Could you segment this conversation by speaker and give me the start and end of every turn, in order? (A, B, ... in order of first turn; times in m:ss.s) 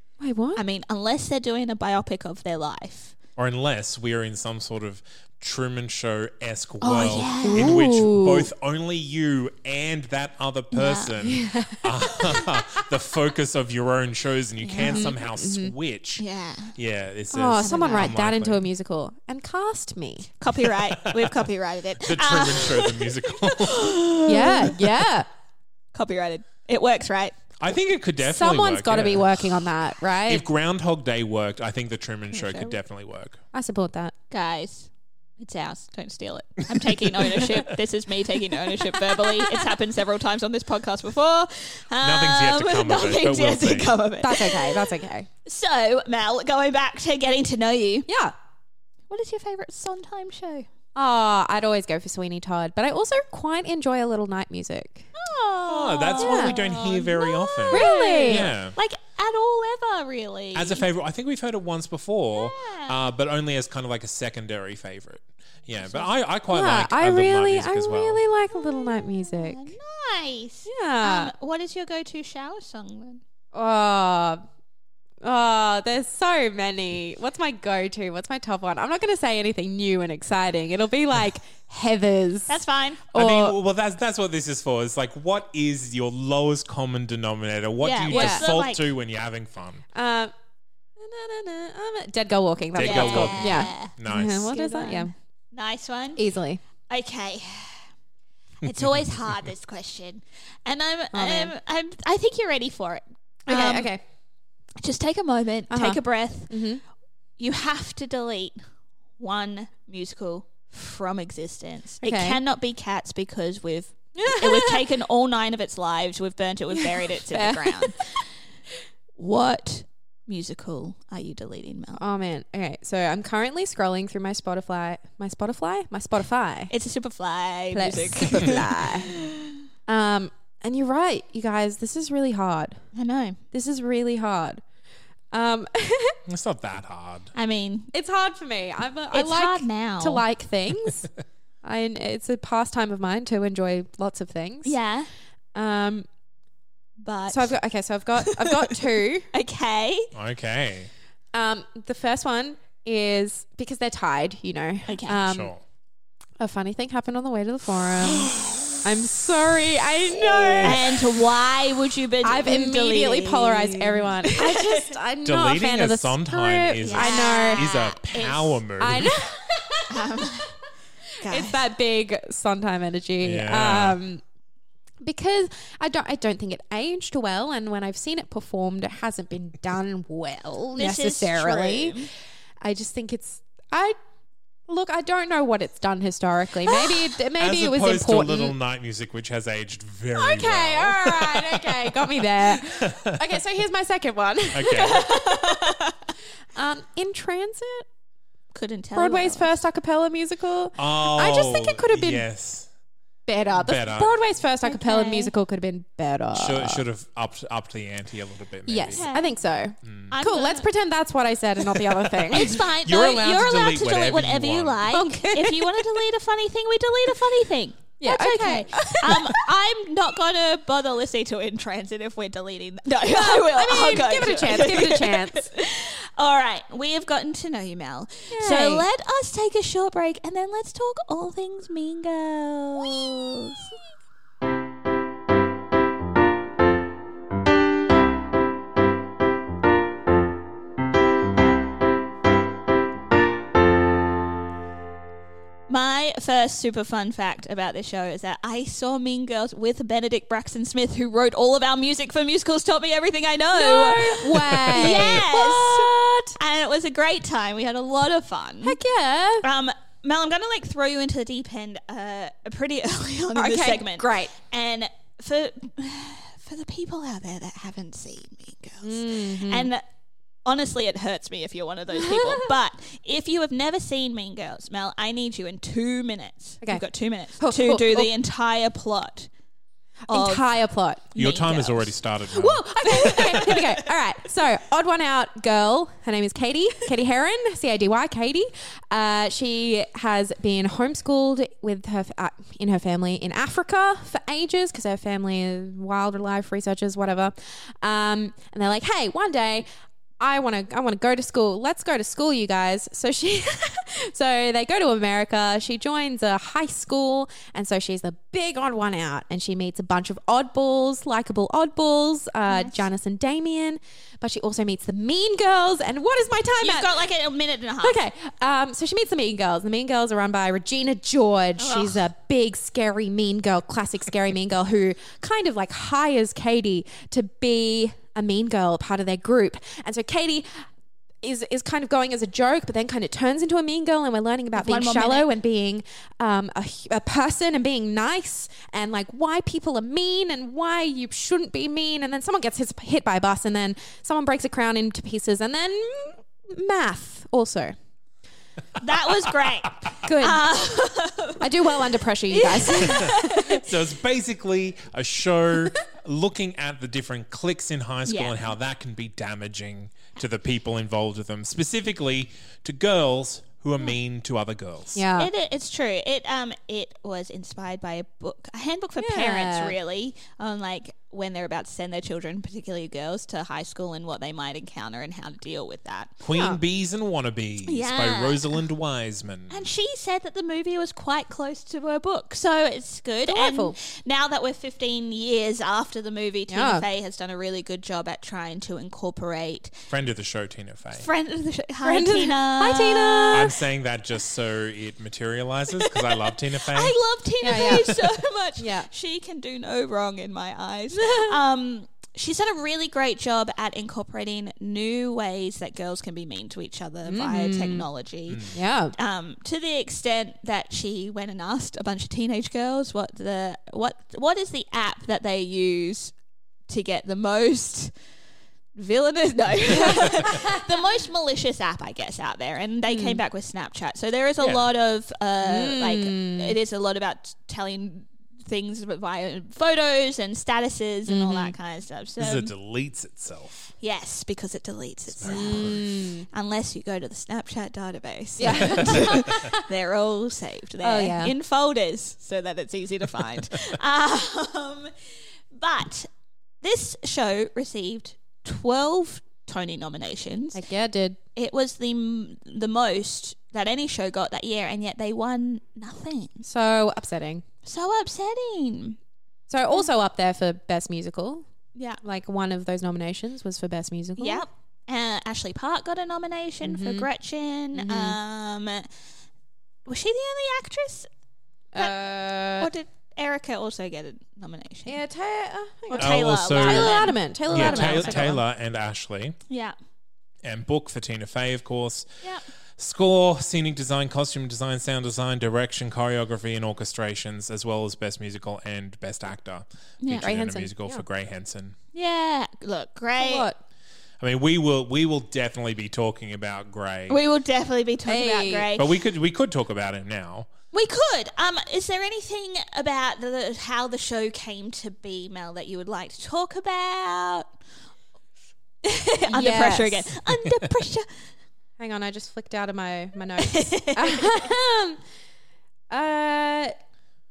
0:00.2-0:00.6 A
0:00.6-0:03.2 B
0:03.4-0:16.2 C
0:06.8-0:08.5 A
0:06.9-0:07.8 B
0:10.7-0:11.1 B
0:11.2-0:12.6 A
0:14.6-0:15.1 B
0:14.8-0:15.7 A
0:16.2-0:16.8 B
0:16.8-0:18.7 C
0:17.3-0:20.3 A
0:17.6-0:18.1 B
0:20.4-0:24.8 B
0:21.0-0:21.4 C
0:22.0-0:24.0 C
0:24.3-0:25.3 A
0:25.9-0:27.4 B
0:27.6-0:29.5 C
0:28.2-0:30.4 A
0:30.3-0:33.4 C
0:32.3-0:32.8 B
0:33.5-0:34.1 A
0:34.3-0:44.8 B
0:36.8-0:37.6 C
0:39.2-0:39.6 A
0:42.0-0:44.0 C
0:44.2-0:45.3 A
0:45.5-0:48.1 B
0:48.1-0:48.3 A
0:49.1-0:50.7 B
0:51.0-0:55.1 A
0:55.2-1:00.8 B
0:55.7-0:58.8 C
0:56.2-0:56.6 A
0:57.7-0:58.5 A
1:00.6-1:08.2 C
1:02.3-1:03.0 B
1:05.8-1:06.1 B
1:06.5-1:09.7 A
1:08.5-1:13.2 B
1:10.7-1:11.3 A
1:13.5-1:14.4 A
1:15.2-1:23.6 A
1:22.5-1:23.0 B
1:23.1-1:29.8 C
1:27.8-1:28.8 B
1:28.1-1:28.5 A
1:29.9-1:30.3 A
1:31.0-1:35.1 A
1:32.8-1:34.6 C
1:32.8-1:33.9 B
1:34.5-1:36.2 B
1:36.2-1:36.6 A
1:36.9-1:37.9 B
1:38.6-1:43.9 B
1:41.1-1:41.6 A
1:43.5-1:44.0 A
1:44.8-1:46.6 B
1:45.7-1:46.8 A
1:47.4-1:48.6 B
1:49.2-1:58.2 B
1:52.0-1:52.4 A
1:54.2-1:54.8 A
1:56.7-1:58.1 A
1:59.2-2:02.0 B
2:02.0-2:06.7 A
2:06.7-2:09.5 B
2:07.7-2:09.2 A
2:09.9-2:12.8 A
2:13.0-2:13.4 B
2:13.5-2:14.6 A
2:15.3-2:16.2 A
2:16.3-2:17.3 C
2:17.4-2:17.9 B
2:17.9-2:21.1 A
2:19.1-2:20.2 B
2:21.6-2:24.8 A
2:24.6-2:25.1 B
2:25.5-2:26.1 A
2:27.0-2:27.5 B
2:27.3-2:29.3 A
2:28.2-2:28.8 B
2:29.3-2:30.1 B
2:30.1-2:30.9 C
2:31.3-2:35.5 A
2:34.9-2:35.2 B
2:35.3-2:35.6 C
2:36.4-2:40.9 A
2:40.5-2:40.8 C
2:40.6-2:44.9 B
2:42.2-2:47.7 A
2:45.2-2:49.2 C
2:46.8-2:48.6 B
2:48.8-2:50.1 A
2:49.9-2:50.5 B
2:51.2-2:51.6 B
2:51.2-2:54.2 A
2:53.2-2:54.0 C
2:55.0-3:02.0 A
3:00.8-3:02.1 B
3:02.6-3:04.0 A
3:04.7-3:08.6 A
3:07.4-3:13.2 C
3:10.2-3:15.6 A
3:14.5-3:15.1 C
3:14.8-3:16.0 B
3:16.6-3:17.9 A
3:18.5-3:19.5 B
3:19.0-3:22.3 A
3:20.8-3:22.7 C
3:23.3-3:26.8 A
3:23.5-3:24.2 C
3:24.6-3:25.3 B
3:26.3-3:29.0 C
3:28.7-3:32.6 A
3:29.0-3:29.3 B
3:29.8-3:30.1 C
3:30.1-3:30.7 B
3:31.9-3:34.9 C
3:32.3-3:53.8 B
3:34.9-3:36.0 A
3:38.0-3:39.5 A
3:43.0-3:45.5 A
3:48.3-3:48.9 A
4:05.7-4:18.8 B
4:13.5-4:16.4 A
4:18.6-4:19.5 A
4:19.4-4:29.8 B
4:23.4-4:24.3 A
4:28.8-4:29.7 A
4:30.4-4:39.3 B
4:31.9-4:32.5 A
4:37.4-4:38.1 A
4:40.1-4:41.1 A
4:40.1-4:40.4 B
4:41.1-4:41.9 B
4:41.2-4:42.7 C
4:42.3-4:59.7 A
4:43.0-4:43.6 B
5:00.2-5:17.0 A
5:12.5-5:12.8 B
5:16.6-5:18.0 B
5:17.8-5:30.7 A
5:21.6-5:22.0 B
5:31.2-5:47.8 A
5:34.6-5:35.3 B
5:48.8-5:51.5 B
5:50.0-5:50.5 A
5:51.4-5:53.4 A
5:52.3-5:53.6 B
5:53.5-6:05.1 C
5:58.1-5:58.4 B
6:05.0-6:05.3 A
6:05.2-6:16.2 B
6:09.0-6:09.8 A
6:16.2-6:19.6 C
6:16.3-6:16.6 A
6:17.7-6:18.6 B
6:19.5-6:29.8 B
6:23.3-6:23.8 A
6:26.5-6:26.9 A
6:29.9-6:31.1 C
6:30.9-6:33.5 B
6:31.8-6:33.5 A
6:33.3-6:37.0 C
6:35.8-6:56.1 B
6:37.4-6:38.0 A
6:37.5-6:37.8 C
6:38.6-6:38.9 A
6:41.0-6:41.4 A
6:47.1-6:47.9 A
6:48.5-6:49.0 A
6:56.7-6:57.9 B
6:58.8-7:12.5 B
7:02.9-7:03.2 A
7:04.4-7:04.7 C
7:05.4-7:06.6 A
7:11.1-7:11.6 A
7:12.2-7:13.6 C
7:13.8-7:15.8 B
7:15.2-7:15.8 C
7:15.3-7:16.3 A
7:16.3-7:24.9 B
7:18.4-7:19.6 A
7:18.7-7:19.1 C
7:20.8-7:21.3 A
7:25.5-7:26.1 B
7:26.6-7:30.6 B
7:30.5-7:31.2 A
7:31.4-7:36.4 B
7:36.4-7:37.4 A
7:37.6-7:39.0 B
7:39.5-7:41.4 A
7:41.8-7:42.0 B
7:42.0-7:44.4 A
7:44.2-7:48.9 B
7:46.6-7:47.1 A
7:47.8-7:48.2 A
7:49.9-7:51.1 B
7:51.7-7:52.7 A
7:52.6-7:55.0 B
7:54.9-7:58.4 A
7:55.9-7:58.3 B
7:56.0-7:59.4 C
7:59.5-7:59.8 B
8:00.4-8:02.1 C
8:02.8-8:11.8 C
8:10.0-8:10.3 B
8:10.1-8:11.0 A
8:11.9-8:13.5 B
8:13.2-8:13.6 A
8:14.2-8:17.2 C
8:17.1-8:18.9 B
8:18.1-8:18.7 A
8:18.8-8:20.5 C
8:20.7-8:27.5 B
8:28.8-8:31.1 B
8:29.3-8:30.1 A
8:31.8-8:35.0 A
8:33.4-8:34.4 B
8:35.9-8:36.8 A